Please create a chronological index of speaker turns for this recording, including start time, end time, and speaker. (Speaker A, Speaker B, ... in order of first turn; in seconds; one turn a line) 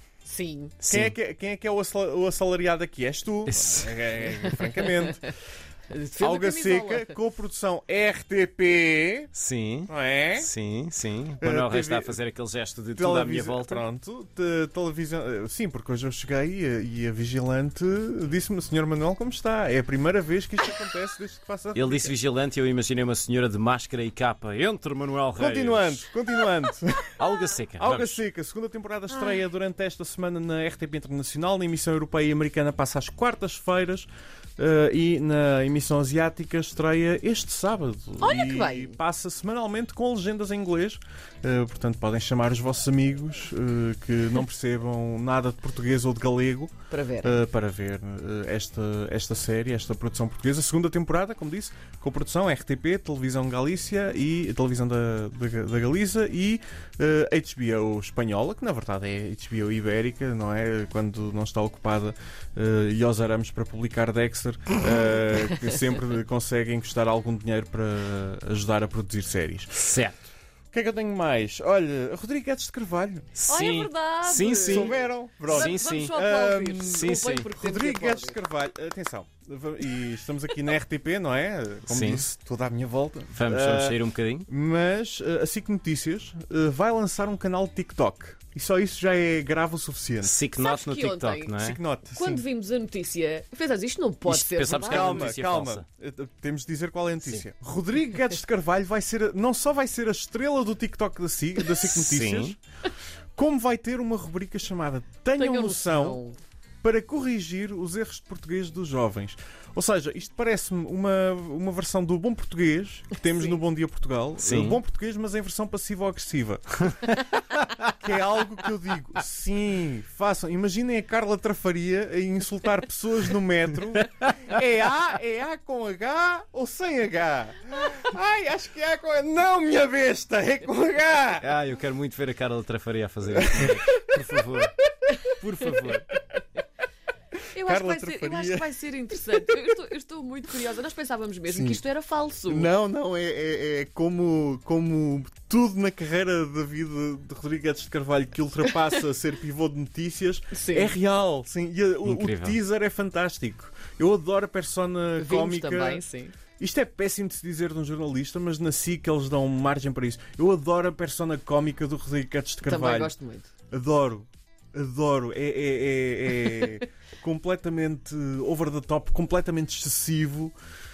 Speaker A: 0.2-0.8
Speaker B: 0.8-1.1
Speaker C: 0.8-5.2
Speaker B: 3.5-4.3
Speaker A: 5.9-7.2
Speaker C: 6.2-9.3
Speaker B: 9.3-13.8
Speaker C: 9.9-10.5
Speaker C: 11.4-12.2
Speaker C: 12.9-22.2
Speaker B: 21.8-26.1
Speaker C: 25.4-27.2
Speaker B: 27.2-28.2
Speaker C: 27.8-69.8
Speaker A: 38.2-39.0
Speaker A: 46.9-47.4
Speaker B: 69.7-70.2
Speaker C: 70.7-73.3
Speaker B: 73.3-76.2
Speaker A: 73.5-78.4
Speaker C: 74.7-90.4
Speaker B: 76.8-77.5
Speaker B: 81.9-82.3
Speaker B: 83.3-84.5
Speaker B: 90.2-91.8
Speaker A: 90.6-91.6
Speaker C: 91.5-92.4
Speaker A: 92.1-95.3
Speaker B: 94.3-95.9
Speaker C: 94.8-102.6
Speaker B: 101.8-102.6
Speaker C: 103.4-106.2
Speaker A: 105.4-106.4
Speaker C: 106.8-117.2
Speaker B: 114.4-114.8
Speaker C: 117.8-131.5
Speaker B: 131.4-134.8
Speaker C: 133.4-134.0
Speaker B: 135.3-136.1
Speaker A: 137.5-142.7
Speaker C: 137.6-139.7
Speaker C: 141.5-141.8
Speaker C: 142.5-156.0
Speaker A: 150.5-151.0
Speaker B: 152.1-152.6
Speaker A: 155.2-156.3
Speaker C: 156.6-163.1
Speaker A: 162.6-163.5
Speaker C: 163.7-170.6